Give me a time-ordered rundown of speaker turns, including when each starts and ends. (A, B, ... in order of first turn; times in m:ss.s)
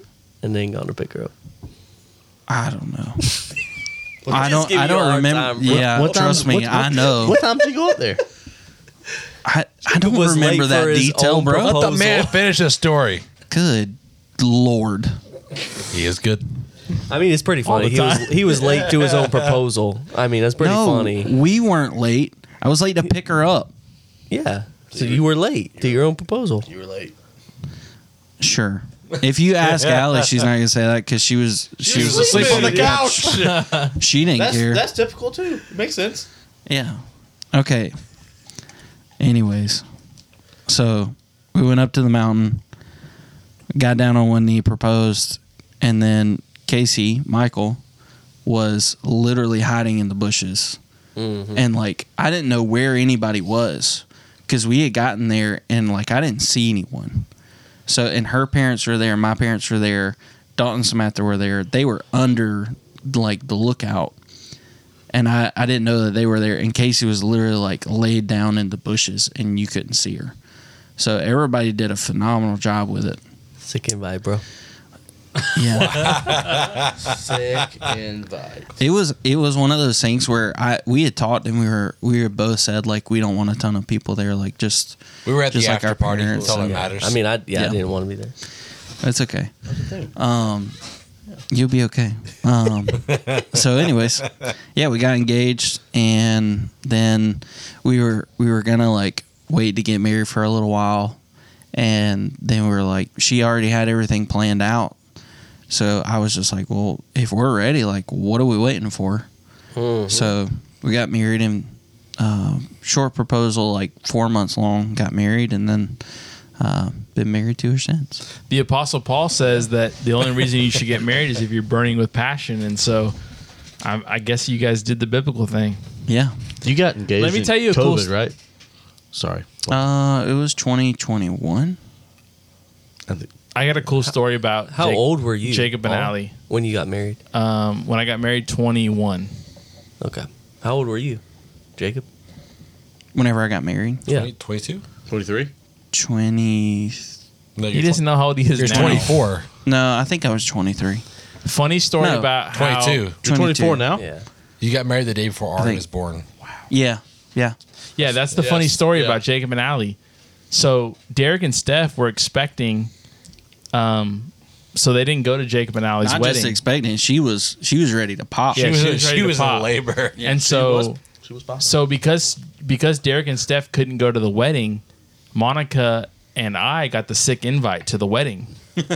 0:00.4-0:01.3 A
0:02.5-0:03.3 B
0:04.2-0:04.5 C
0:04.3-0:06.2 A
0:04.3-0:07.4 B
0:05.6-0:08.2 C
0:09.4-0:11.8 B
0:09.8-0:12.4 A
0:11.6-0:13.2 D
0:13.5-0:15.2 B
0:15.9-0:16.4 D
0:17.1-0:21.3 A
0:17.6-0:18.5 E
0:20.6-0:23.7 B
0:24.3-0:26.7 A
0:24.9-0:26.1 C
0:26.6-0:27.1 C
0:28.4-0:34.8 B
0:31.8-0:33.8 C
0:31.9-0:33.6 D
0:33.4-0:34.0 E
0:34.4-0:36.3 C
0:36.7-0:37.0 B
0:37.5-0:38.0 B
0:39.2-0:39.8 B
0:40.7-0:42.6 B
0:43.8-0:47.8 B
0:48.4-0:50.8 B
0:51.2-0:51.6 A
0:51.5-0:57.3 B
0:57.9-1:04.1 B
1:05.1-1:10.3 B
1:11.0-1:13.2 B
1:13.6-1:14.4 A
1:15.5-1:16.3 B
1:15.8-1:17.1 D
1:16.4-1:18.8 C
1:18.8-1:26.8 B
1:25.2-1:27.2 D
1:26.4-1:28.3 A
1:29.0-1:29.5 B
1:29.7-1:30.1 C
1:30.1-1:30.8 B
1:31.5-1:41.2 B
1:33.0-1:33.6 D
1:41.7-1:45.0 B
1:45.7-1:49.3 B
1:49.7-1:50.3 A
1:50.1-1:56.0 B
1:56.6-1:58.2 B
1:58.5-2:03.1 E
2:03.8-2:05.8 E
2:06.1-2:06.3 B
2:06.6-2:08.3 C
2:07.2-2:08.1 E
2:09.1-2:09.8 C
2:09.7-2:11.8 B
2:13.5-2:16.3 E
2:14.7-2:17.2 A
2:17.3-2:19.3 E
2:20.0-2:21.2 A
2:21.8-2:22.0 A
2:23.1-2:24.0 B
2:24.1-2:24.8 D
2:25.1-2:25.5 C
2:25.9-2:27.1 B
2:27.6-2:29.5 D
2:27.7-2:29.2 E
2:29.6-2:31.0 B
2:31.4-2:33.0 E
2:32.0-2:32.3 B
2:32.5-2:33.2 D
2:33.2-2:33.9 B
2:33.2-2:34.0 C
2:33.9-2:34.2 A
2:34.6-2:36.2 D
2:35.6-2:35.8 B
2:36.7-2:37.6 B
2:38.0-2:40.0 E
2:38.3-2:39.2 C
2:40.5-2:42.9 E
2:43.7-2:46.6 E
2:46.0-2:48.7 B
2:48.5-2:50.2 D
2:48.5-2:51.0 E
2:50.2-2:51.8 C
2:51.6-2:54.8 E
2:55.3-2:58.5 E